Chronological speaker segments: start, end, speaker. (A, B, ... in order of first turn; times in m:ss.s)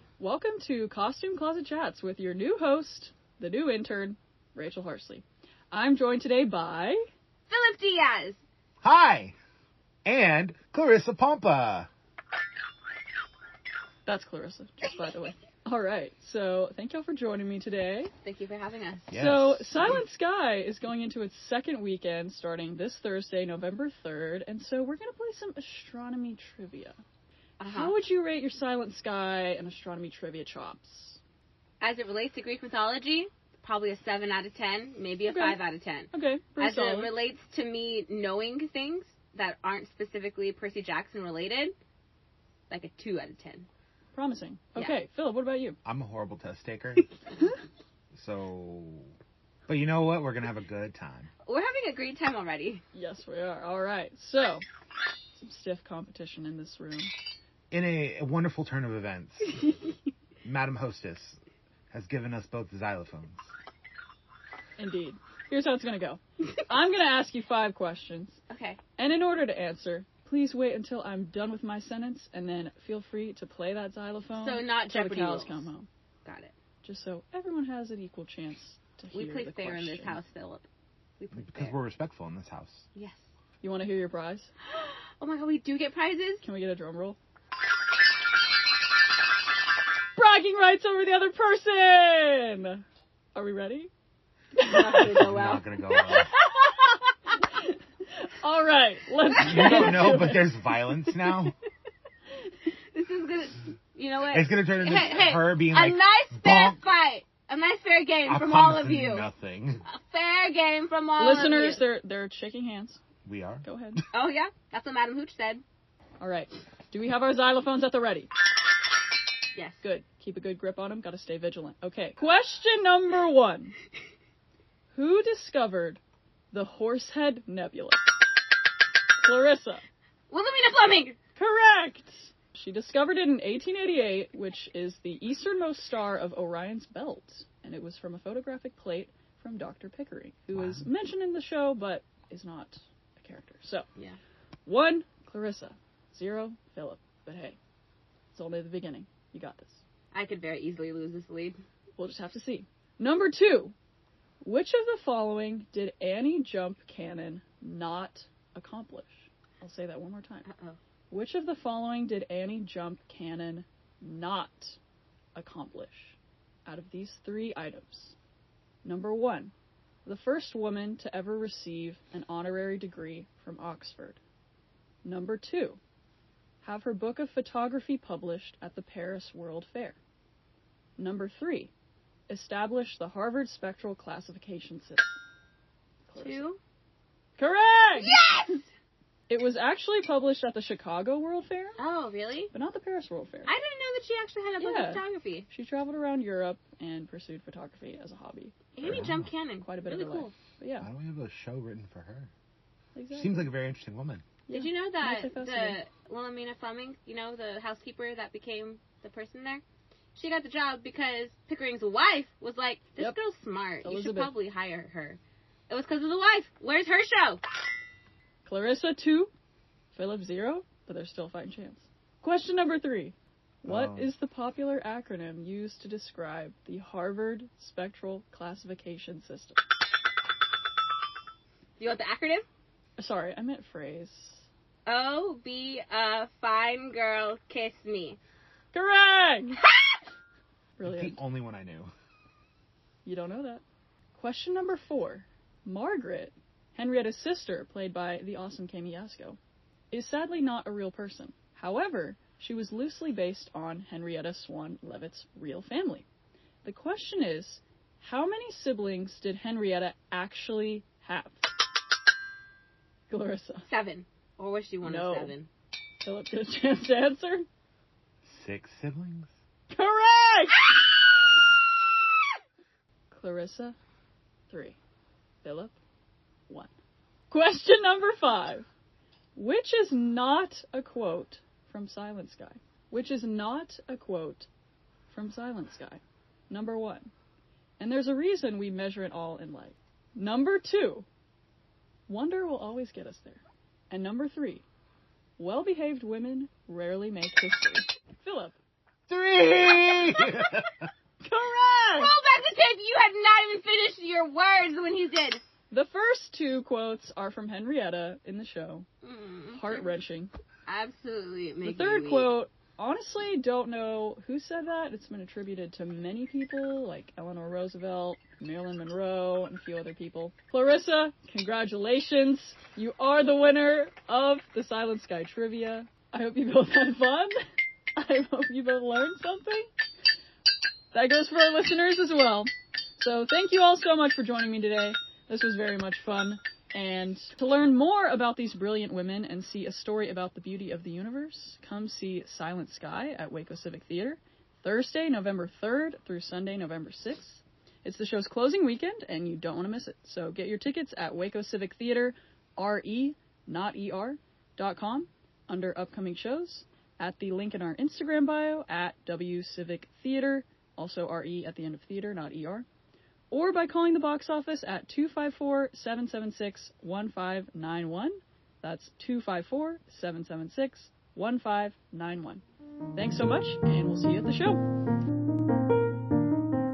0:00.2-0:07.0 A
0:07.5-0:08.4 B
0:08.8-0:09.4 C
0:10.1-0:11.9 C
0:14.1-0:18.1 A
0:18.2-0:19.1 B
0:19.1-0:20.0 C
0:19.1-0:27.0 A
0:27.6-0:28.0 B
0:27.7-0:31.2 A
0:31.8-0:41.7 B
0:35.3-0:37.2 A
0:42.7-0:43.7 B
0:44.1-0:45.8 A
0:45.8-0:47.1 C
0:48.1-0:49.1 C
0:49.7-0:51.3 C
0:51.4-0:52.8 B
0:52.9-0:54.6 A
0:55.4-0:57.1 A
0:57.7-0:59.8 C
1:00.4-1:01.4 C
1:01.9-1:03.5 C
1:04.8-1:08.4 A
1:08.5-1:08.8 B
1:09.0-1:15.9 A
1:14.3-1:15.7 B
1:16.2-1:16.5 B
1:16.8-1:20.2 A
1:19.1-1:20.6 B
1:21.2-1:21.8 B
1:21.3-1:22.9 C
1:23.0-1:23.2 B
1:23.6-1:24.5 A
1:24.7-1:26.4 B
1:26.4-1:27.2 A
1:30.2-1:32.8 A
1:33.4-1:33.9 A
1:34.6-1:35.2 A
1:34.6-1:36.9 B
1:35.0-1:36.4 C
1:38.2-1:40.8 A
1:39.4-1:41.6 C
1:42.9-1:49.3 B
1:44.3-1:46.8 C
1:48.3-1:49.8 C
1:49.9-1:51.8 B
1:51.2-1:53.0 A
1:53.2-1:54.0 C
1:53.6-1:54.0 A
1:54.1-1:55.6 B
1:56.2-1:58.3 A
1:59.6-1:59.8 B
1:59.8-2:03.8 A
2:04.9-2:06.0 A
2:06.5-2:08.0 A
2:09.2-2:09.8 A
2:10.3-2:11.2 B
2:11.4-2:23.9 A
2:20.5-2:20.9 C
2:24.7-2:27.6 A
2:28.3-2:29.8 A
2:30.1-2:31.6 B
2:32.0-2:33.7 A
2:34.4-2:40.5 A
2:40.5-2:40.8 B
2:41.1-2:44.8 A
2:45.4-2:48.2 A
2:48.8-2:49.5 A
2:50.0-2:54.2 A
2:55.0-2:55.8 A
2:56.6-3:00.0 A
3:01.0-3:01.7 A
3:02.3-3:05.1 A
3:06.1-3:06.4 A
3:06.2-3:06.6 B
3:07.4-3:08.3 A
3:08.0-3:08.6 B
3:09.3-3:11.8 A
3:11.8-3:12.5 B
3:12.5-3:13.5 A
3:13.5-3:15.5 B
3:14.6-3:18.6 A
3:18.8-3:20.3 B
3:18.8-3:19.3 C
3:19.6-3:20.9 A
3:20.8-3:22.3 C
3:23.0-3:23.4 A
3:23.1-3:24.2 C
3:24.5-3:25.8 A
3:24.5-3:29.6 B
3:30.2-3:37.4 B
3:33.8-3:34.3 A
3:38.4-3:39.3 A
3:39.9-3:49.6 A
3:43.7-3:44.1 C
3:51.8-3:52.4 B
3:53.0-3:54.5 A
3:54.9-3:58.2 B
3:58.7-3:59.6 A
4:00.8-4:01.2 A
4:00.8-4:01.9 C
4:03.0-4:03.6 A
4:04.2-4:09.4 A
4:09.9-4:16.1 A
4:16.6-4:21.5 A
4:23.1-4:23.7 A
4:23.7-4:25.5 B
4:24.8-4:25.4 A
4:26.0-4:27.5 A
4:28.2-4:29.3 C
4:29.7-4:31.0 A
4:33.1-4:33.8 A
4:34.5-4:34.8 A
4:35.4-4:35.8 A
4:37.3-4:38.7 A
4:39.4-4:44.5 A
4:45.1-4:47.1 A
4:47.8-4:51.1 A
4:52.1-4:54.6 A
4:55.4-4:58.6 A
4:59.1-5:00.9 C
5:01.2-5:02.1 A
5:01.9-5:05.4 B
5:05.7-5:08.9 A
5:09.0-5:09.9 B
5:09.5-5:10.3 A
5:10.7-5:12.3 B
5:11.6-5:27.4 A
5:28.0-5:29.7 A
5:30.9-6:02.7 A
6:03.3-6:12.4 A
6:13.0-6:14.6 A